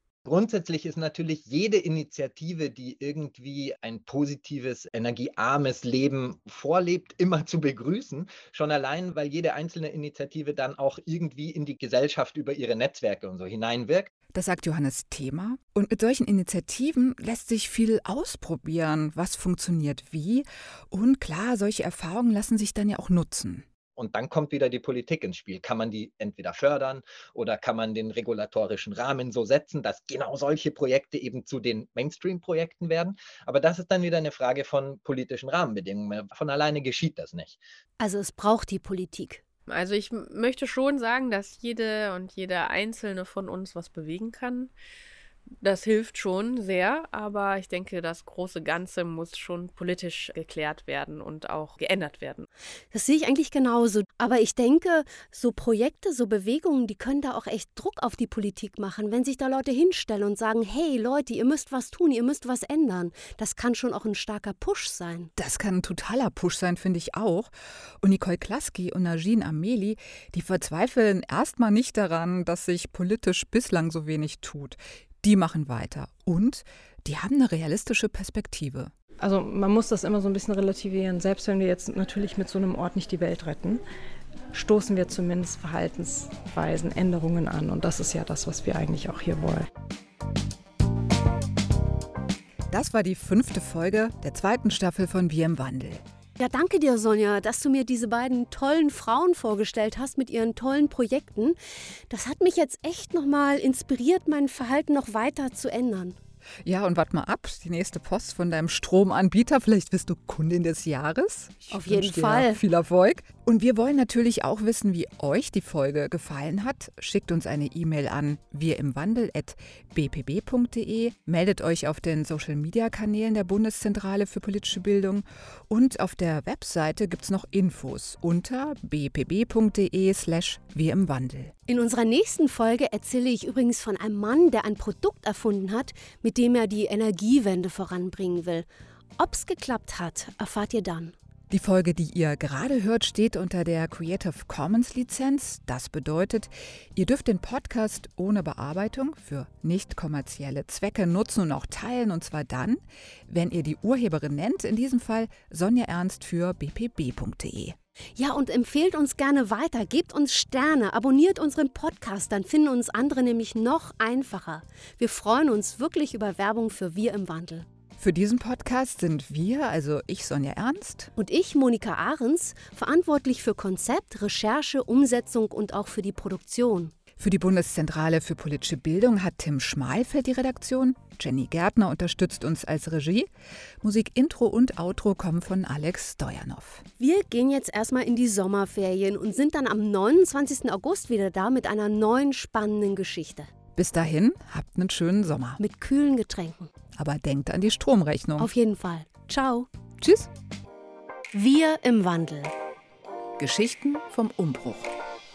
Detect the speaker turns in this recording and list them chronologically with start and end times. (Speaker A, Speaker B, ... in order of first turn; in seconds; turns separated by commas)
Speaker A: 0.2-14.1, Speaker B: 14.3-23.7, Speaker A: 24.0-37.6, Speaker C: 38.0-39.4, Speaker D: 39.7-44.7, Speaker D: 45.6-52.5, Speaker C: 52.9-65.3, Speaker B: 65.4-67.5, Speaker B: 68.0-78.9, Speaker E: 79.2-83.8, Speaker E: 84.5-89.7, Speaker B: 92.7-96.0, Speaker C: 96.4-101.6, Speaker C: 102.1-106.2, Speaker B: 106.7-131.5, Speaker C: 111.7-112.6, Speaker C: 131.7-141.2, Speaker B: 141.5-157.8, Speaker C: 158.2-167.7, Speaker B: 168.0-171.1, Speaker C: 171.2-176.9, Speaker B: 177.2-183.3, Speaker B: 183.8-186.8, Speaker C: 187.0-193.5, Speaker B: 193.8-195.6, Speaker C: 195.6-196.7, Speaker B: 197.0-198.5, Speaker C: 198.4-199.7, Speaker B: 200.0-200.3, Speaker C: 201.3-202.5, Speaker B: 203.4-204.9